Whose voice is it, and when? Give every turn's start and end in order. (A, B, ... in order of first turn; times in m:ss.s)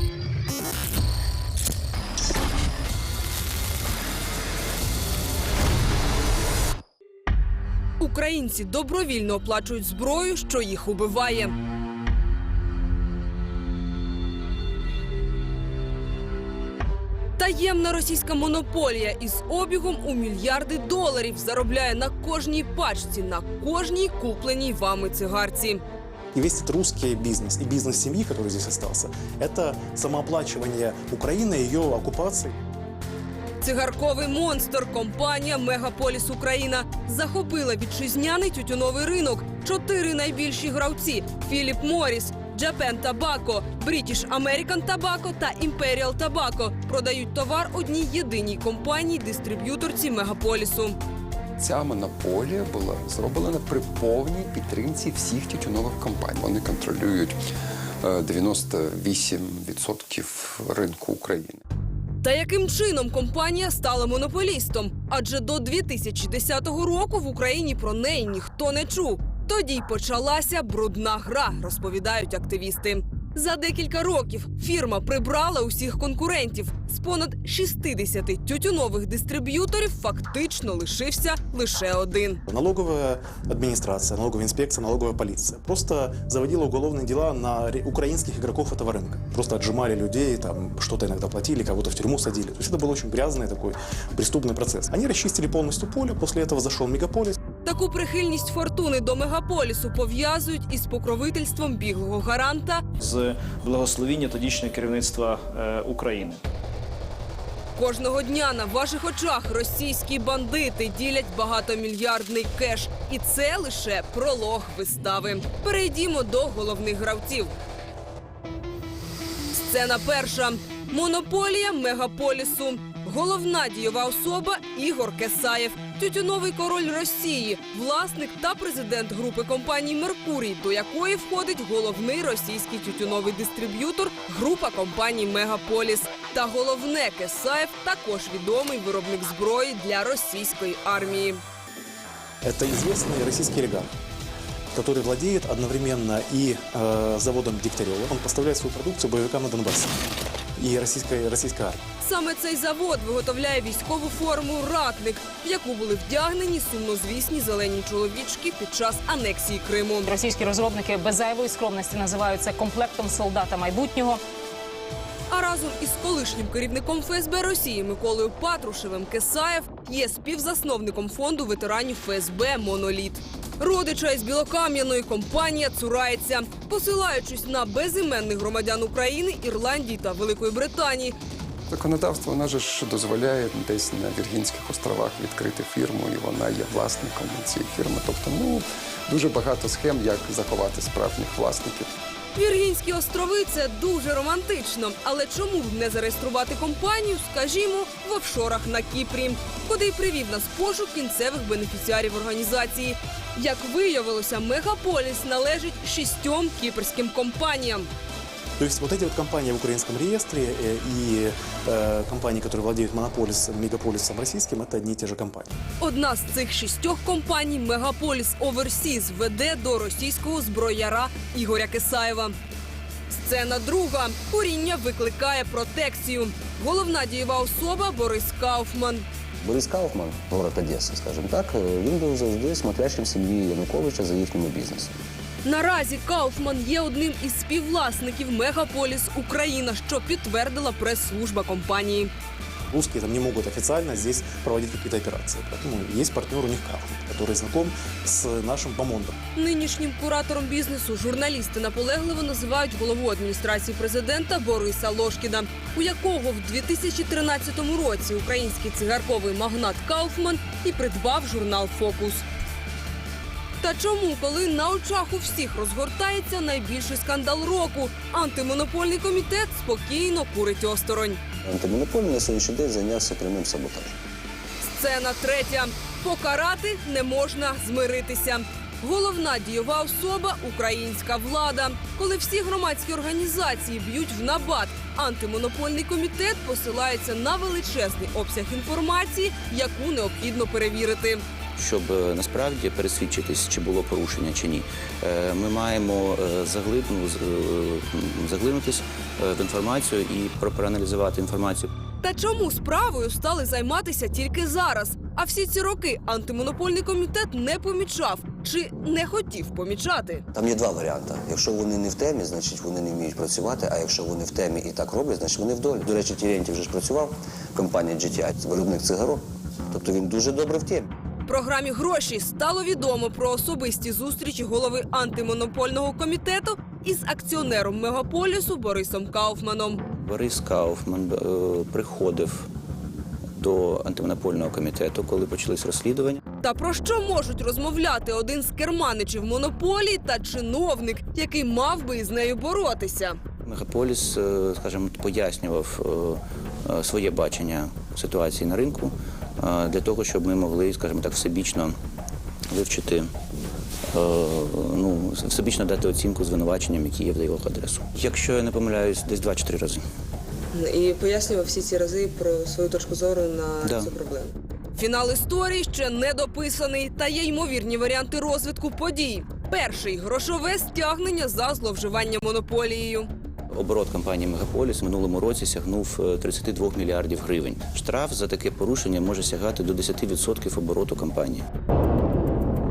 0:08.0-0:11.6 A
0:17.4-0:25.8 A
0:26.3-0:32.6 B
0:33.6-0:51.0 A
0:51.6-0:57.4 C
0:58.0-1:01.6 C
1:02.2-1:22.4 A
1:22.5-1:37.4 B
1:37.6-1:42.8 A
1:43.0-1:46.4 D
1:47.8-1:57.5 A
1:59.5-2:21.4 A
2:22.4-2:23.9 B
2:24.8-2:30.0 B
2:30.6-2:31.8 B
2:32.0-2:40.1 A
2:40.0-2:44.2 E
2:45.3-3:01.2 A
3:01.7-3:11.9 C
3:12.4-3:27.9 A
3:28.6-3:35.5 B
3:35.8-3:42.4 A
3:43.1-3:49.0 A
3:49.4-3:55.0 F
3:55.4-4:02.1 A
4:02.7-4:09.1 B
4:09.4-4:22.2 A
4:23.6-4:31.2 A
4:31.4-4:34.0 F
4:34.6-4:51.2 A
4:51.6-5:01.7 G
5:02.0-5:10.3 A
5:10.3-5:20.9 F
5:21.3-5:29.8 A
5:30.0-5:32.5 G
5:33.4-5:36.2 G
5:36.4-5:43.2 A
5:43.4-5:51.8 G
5:52.5-5:53.1 G
5:53.9-5:59.8 G
6:00.5-6:13.1 A
6:03.6-6:03.9 G
6:13.5-6:21.4 G